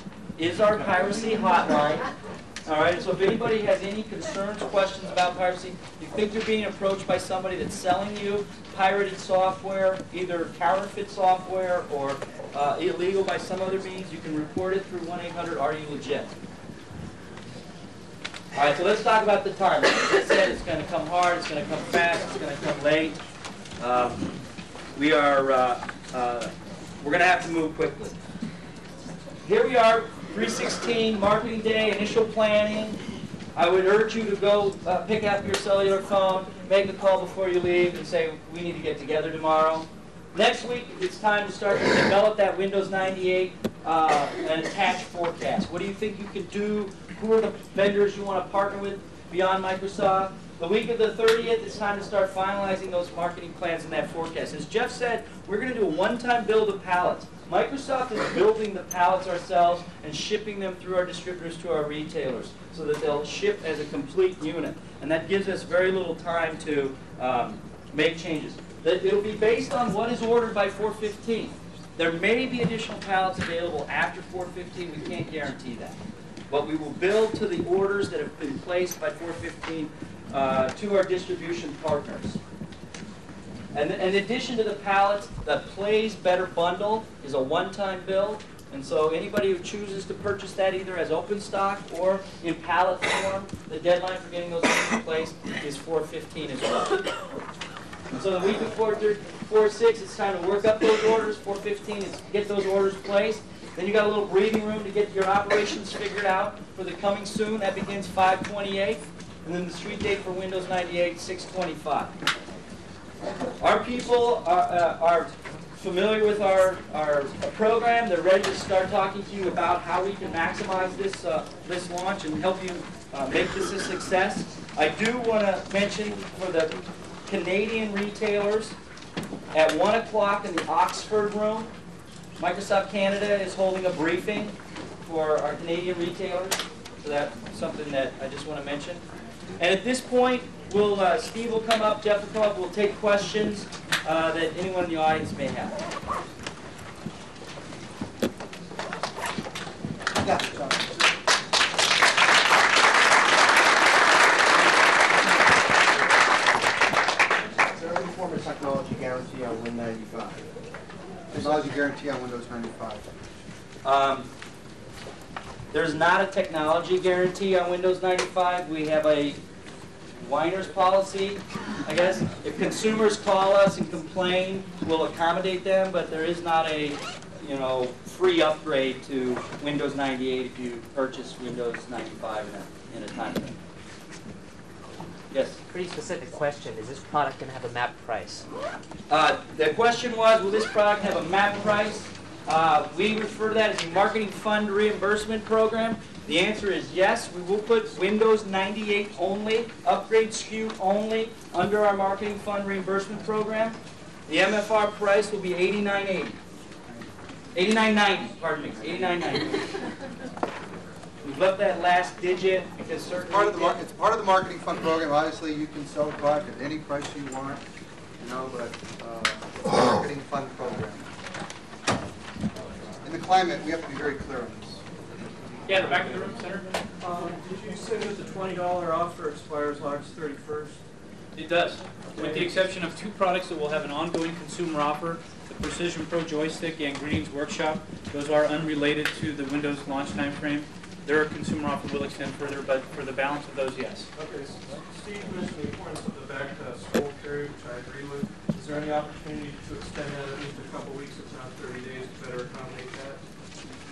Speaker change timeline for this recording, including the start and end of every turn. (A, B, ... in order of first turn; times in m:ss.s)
0:00.4-0:02.1 A
0:02.7-0:16.3 A
0:18.6-0:23.2 A
0:23.8-0:24.3 A
0:25.0-0:28.2 A
0:29.4-0:33.0 A
0:33.6-1:22.4 A
1:23.7-1:37.0 A
1:38.1-1:52.1 A
1:53.6-2:06.7 A
2:07.3-2:08.8 A
2:09.5-2:11.7 A
2:12.4-2:19.0 A
2:19.6-2:25.8 A
2:30.2-2:31.0 B
2:37.8-2:40.5 C
2:41.3-2:43.0 B
2:43.8-2:44.3 A
2:45.7-2:49.4 A
2:50.2-3:03.6 A
3:05.3-3:05.6 A
3:05.7-3:08.5 D
3:09.1-3:23.8 A
3:24.3-3:26.4 A
3:27.6-3:29.6 A
3:31.2-3:33.8 A
3:33.3-3:37.6 B
3:38.2-3:41.0 B
3:43.0-3:44.8 B
3:45.7-3:46.7 E
3:47.0-3:50.8 F
3:51.4-4:04.1 E
4:04.2-4:13.2 F